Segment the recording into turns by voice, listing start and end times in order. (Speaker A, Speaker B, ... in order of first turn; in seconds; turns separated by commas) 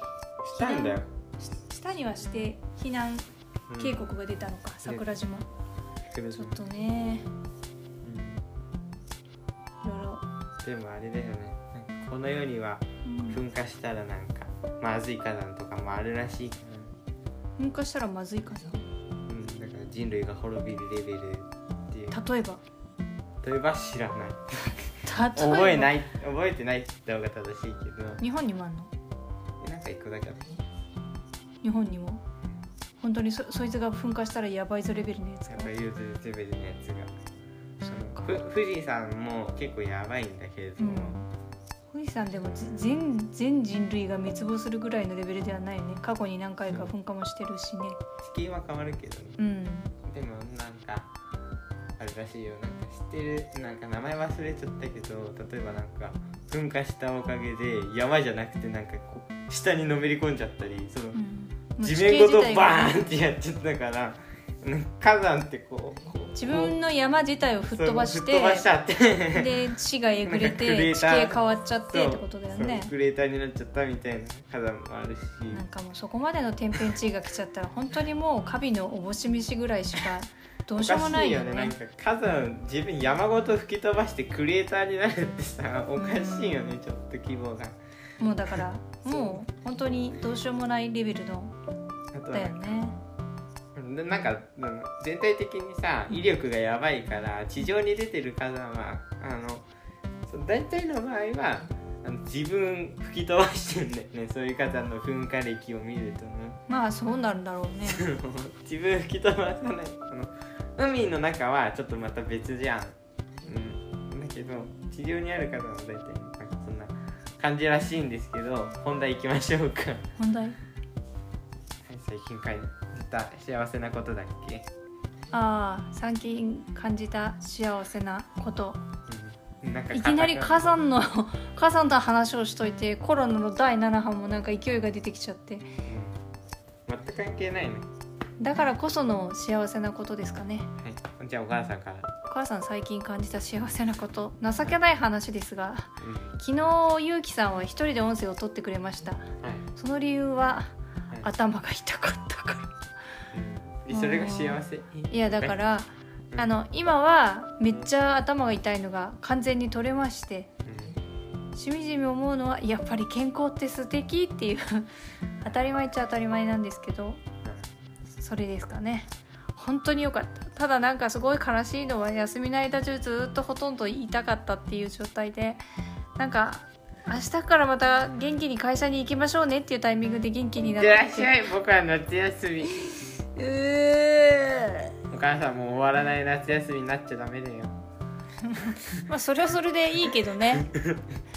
Speaker A: 0.4-1.1, Speaker B: 0.5-3.2, Speaker A: 3.7-4.0, Speaker B: 3.8-5.5, Speaker A: 4.8-5.1, Speaker A: 6.1-6.6, Speaker B: 6.3-7.3, Speaker A: 8.0-8.4, Speaker B: 9.8-10.2, Speaker A: 10.6-16.9, Speaker B: 13.0-13.4, Speaker B: 17.6-18.9, Speaker A: 19.3-22.2, Speaker B: 22.1-22.6, Speaker A: 23.4-28.2, Speaker B: 25.1-25.9, Speaker B: 28.2-28.9, Speaker A: 29.6-30.6, Speaker B: 31.6-32.2, Speaker B: 33.0-35.7, Speaker A: 35.5-37.1, Speaker B: 37.8-38.4, Speaker A: 37.9-41.2, Speaker B: 40.8-41.3, Speaker B: 41.9-48.0, Speaker A: 46.7-46.9, Speaker A: 48.2-49.4, Speaker B: 49.4-49.9, Speaker A: 50.0-51.1, Speaker A: 52.0-61.2, Speaker B: 61.1-63.0, Speaker A: 61.8-66.8, Speaker B: 66.3-68.7, Speaker A: 67.7-69.5, Speaker B: 69.3-72.9, Speaker A: 70.2-75.7, Speaker B: 75.5-81.8, Speaker A: 80.8-87.8, Speaker B: 86.0-86.8, Speaker B: 88.2-91.5, Speaker A: 88.6-89.4, Speaker A: 92.1-92.8, Speaker B: 92.3-93.0, Speaker A: 93.8-99.7, Speaker A: 100.3-106.6, Speaker B: 106.7-108.0, Speaker A: 107.8-120.0, Speaker B: 120.2-120.6, Speaker A: 121.8-124.7, Speaker B: 125.3-128.8, Speaker A: 129.1-130.8, Speaker B: 129.9-135.7, Speaker A: 135.8-136.2, Speaker A: 136.9-137.9, Speaker B: 138.4-140.7, Speaker A: 140.8-142.1, Speaker B: 142.3-149.2, Speaker A: 146.0-146.3, Speaker B: 149.8-150.7, Speaker B: 151.2-152.7, Speaker A: 153.3-155.6, Speaker B: 153.9-160.5, Speaker A: 160.7-161.0, Speaker B: 161.6-164.9, Speaker B: 165.4-167.2, Speaker A: 167.4-167.7, Speaker B: 168.2-175.6, Speaker B: 176.2-181.4, Speaker A: 180.6-182.9, Speaker B: 183.3-184.9, Speaker A: 185.1-187.8, Speaker B: 188.4-190.7, Speaker A: 190.6-191.0